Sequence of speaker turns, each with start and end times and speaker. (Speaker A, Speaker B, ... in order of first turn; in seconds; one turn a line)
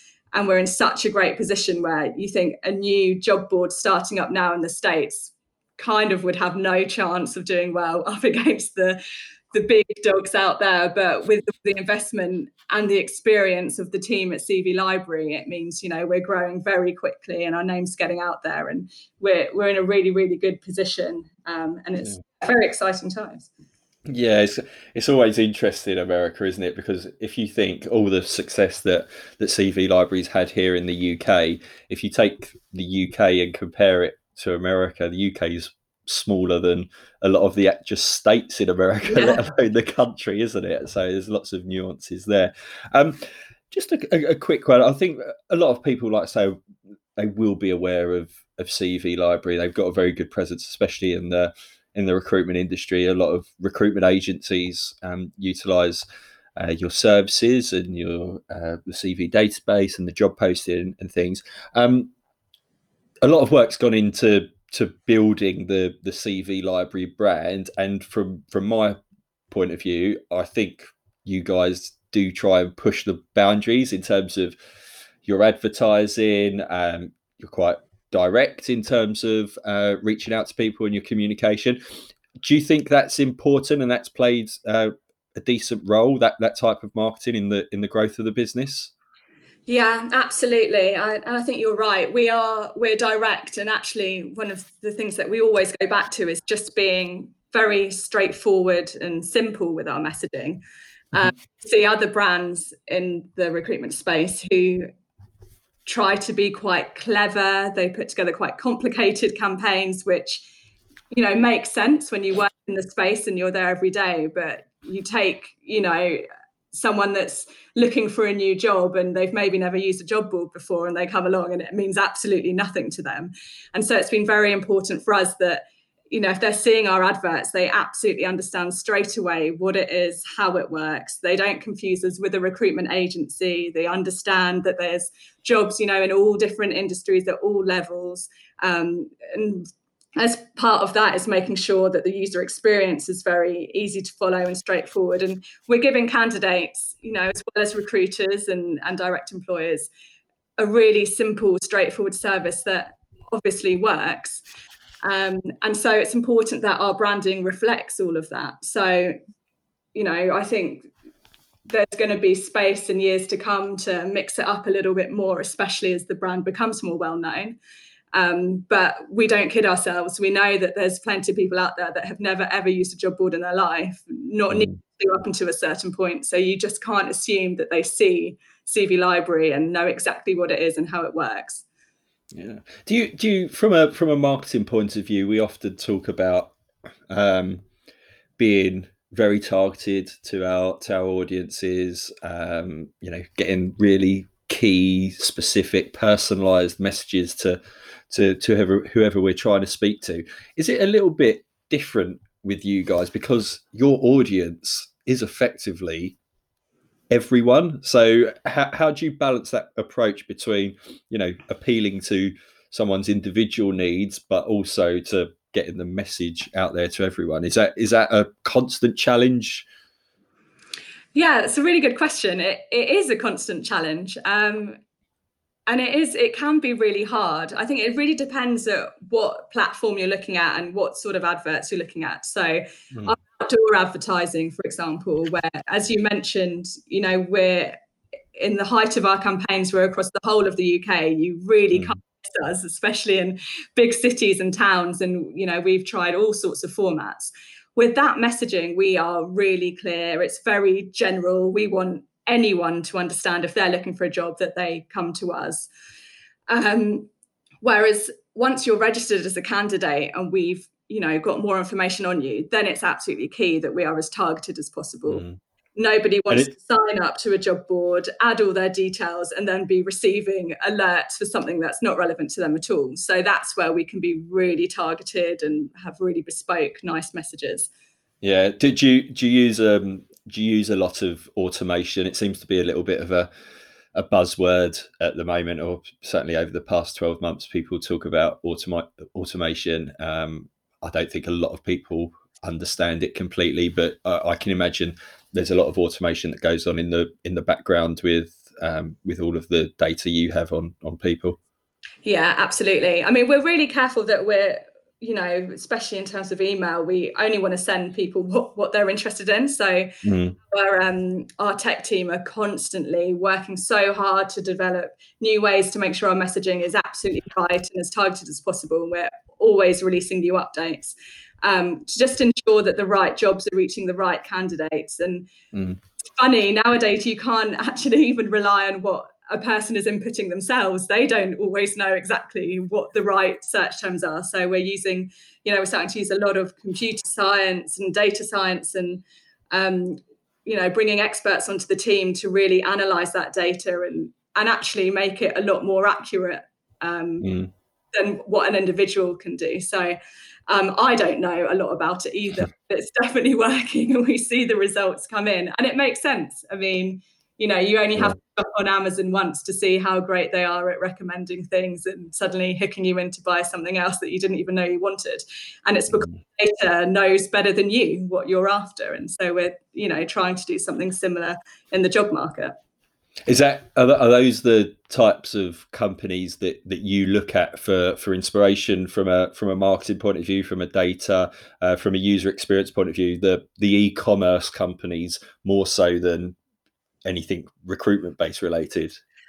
Speaker A: 0.3-9.0
Speaker A: 9.5-23.5
Speaker B: 24.1-46.6
Speaker A: 39.1-39.4
Speaker B: 47.2-56.0
Speaker B: 56.6-62.1
Speaker B: 63.2-69.0
Speaker B: 69.5-74.6
Speaker B: 75.2-81.8
Speaker B: 82.4-88.9
Speaker A: 89.7-100.6
Speaker A: 101.1-104.9
Speaker A: 105.9-110.5
Speaker A: 111.1-149.9
Speaker A: 150.6-154.4
Speaker A: 155.0-159.2
Speaker A: 159.9-160.9
Speaker A: 161.7-167.6
Speaker A: 168.1-181.7
Speaker B: 174.5-174.8
Speaker B: 182.3-186.6
Speaker B: 187.1-187.7
Speaker B: 188.4-206.2
Speaker B: 207.1-219.7
Speaker A: 221.2-224.8
Speaker A: 225.7-237.8
Speaker A: 238.4-255.7
Speaker A: 256.5-257.1
Speaker A: 257.6-265.2
Speaker B: 265.1-265.4
Speaker A: 265.8-277.7
Speaker B: 278.2-283.3
Speaker B: 283.9-301.4
Speaker A: 302.1-309.9
Speaker B: 310.0-310.4
Speaker A: 310.5-325.3
Speaker B: 325.5-325.8
Speaker A: 326.2-347.3
Speaker B: 347.2-347.5
Speaker A: 347.9-372.6
Speaker B: 373.3-386.4
Speaker B: 387.1-389.0